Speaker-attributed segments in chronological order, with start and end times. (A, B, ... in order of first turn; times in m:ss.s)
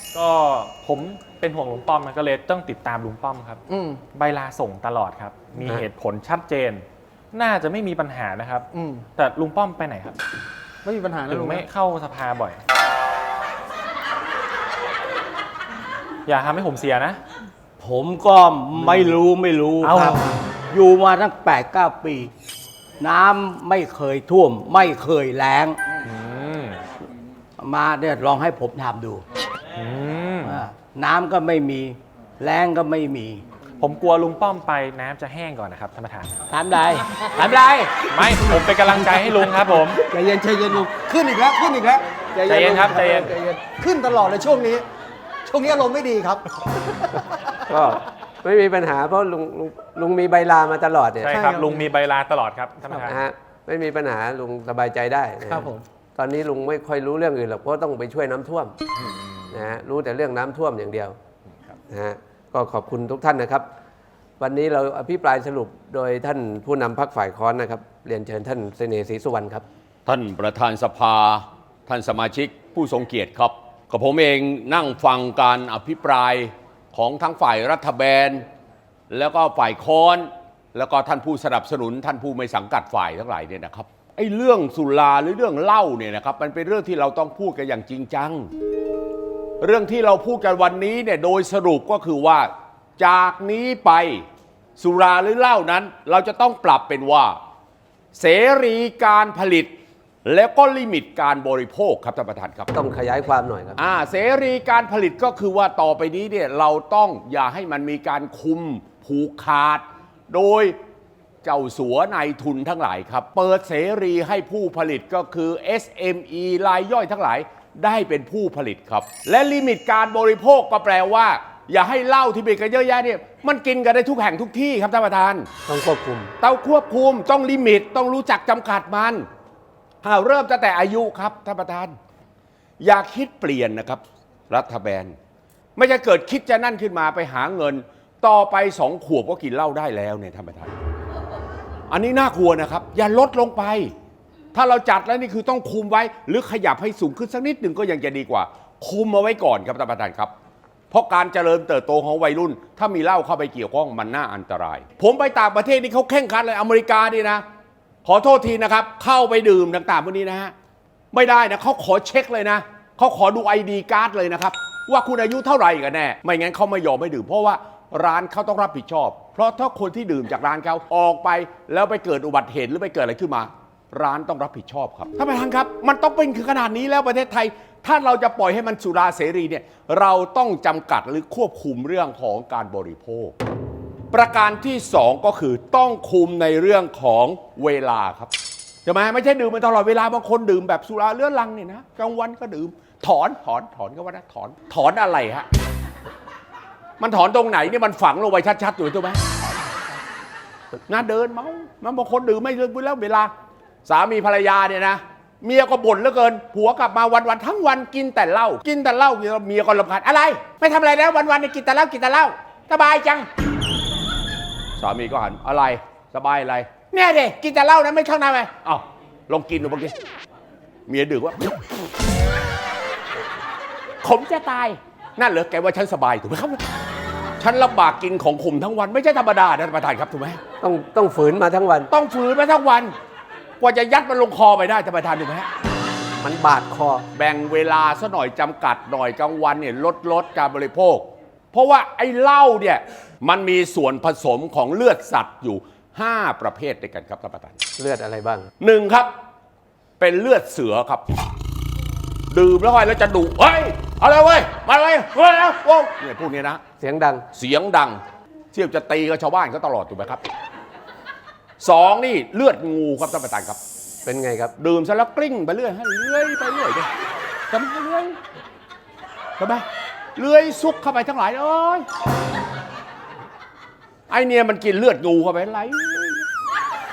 0:00.1-0:03.6 A
0:03.7-0:04.0 B
0:04.1-0:10.2 A
0:08.7-0:09.0 B
0:10.8-0:11.6 B
0:11.4-0:12.6 A
0:16.2-0:17.2 A
0:17.8-0:22.3 C
0:18.8-0:19.1 A
0:19.8-0:20.1 A
0:19.9-0:20.3 B
0:23.0-0:25.8 C
0:26.1-0:26.8 A
0:27.6-0:29.2 C
0:29.8-0:30.5 A
0:30.4-0:33.4 C
0:33.8-0:36.3 A
0:36.5-0:38.3 C
0:38.1-0:40.0 A
0:40.1-0:44.8 B
0:42.5-0:43.3 A
0:45.4-0:47.2 B
0:47.6-0:51.4 D
0:51.3-0:53.1 A
0:51.3-0:51.8 B
0:53.0-0:58.7 D
0:55.5-0:55.8 B
0:59.5-1:01.2 D
1:01.9-1:03.6 D
1:04.4-1:09.6 D
1:10.0-1:18.5 E
1:19.1-1:28.5 E
1:29.6-1:34.2 E
1:34.8-1:37.4 E
1:38.1-1:39.7 E
1:40.2-1:42.7 E
1:42.7-1:43.8 D
1:43.8-1:50.8 E
1:51.4-2:05.5 E
2:05.7-2:06.3 D
2:06.4-2:09.3 E
2:10.0-2:12.0 E
2:12.8-2:15.1 E
2:15.8-2:20.7 E
2:21.9-2:23.9 E
2:24.5-2:30.3 E
2:30.9-2:37.4 E
2:38.0-2:40.5 E
2:41.1-3:03.3 E
3:04.1-3:08.3 E
3:08.8-3:15.4 E
3:17.0-3:19.2 E
3:20.9-3:23.3 E
3:23.8-3:33.3 E
3:34.8-3:39.9 E
3:40.9-3:41.9 E
3:44.0-3:46.6 E
3:47.4-3:50.4 E
3:50.6-3:51.9 D
3:51.9-3:52.9 E
3:53.6-3:55.5 E
3:56.2-3:57.0 D
3:57.1-4:07.6 E
4:07.8-4:08.5 D
4:08.6-4:09.1 E
4:10.0-4:11.0 E
4:12.3-4:16.6 E
4:16.8-4:17.2 D
4:17.3-4:18.0 E
4:18.5-4:20.2 E
4:21.6-4:23.6 E
4:24.0-4:24.5 D
4:24.6-4:26.9 E
4:27.5-4:28.2 E
4:29.4-4:29.6 E
4:30.2-4:31.8 E
4:34.1-4:36.3 E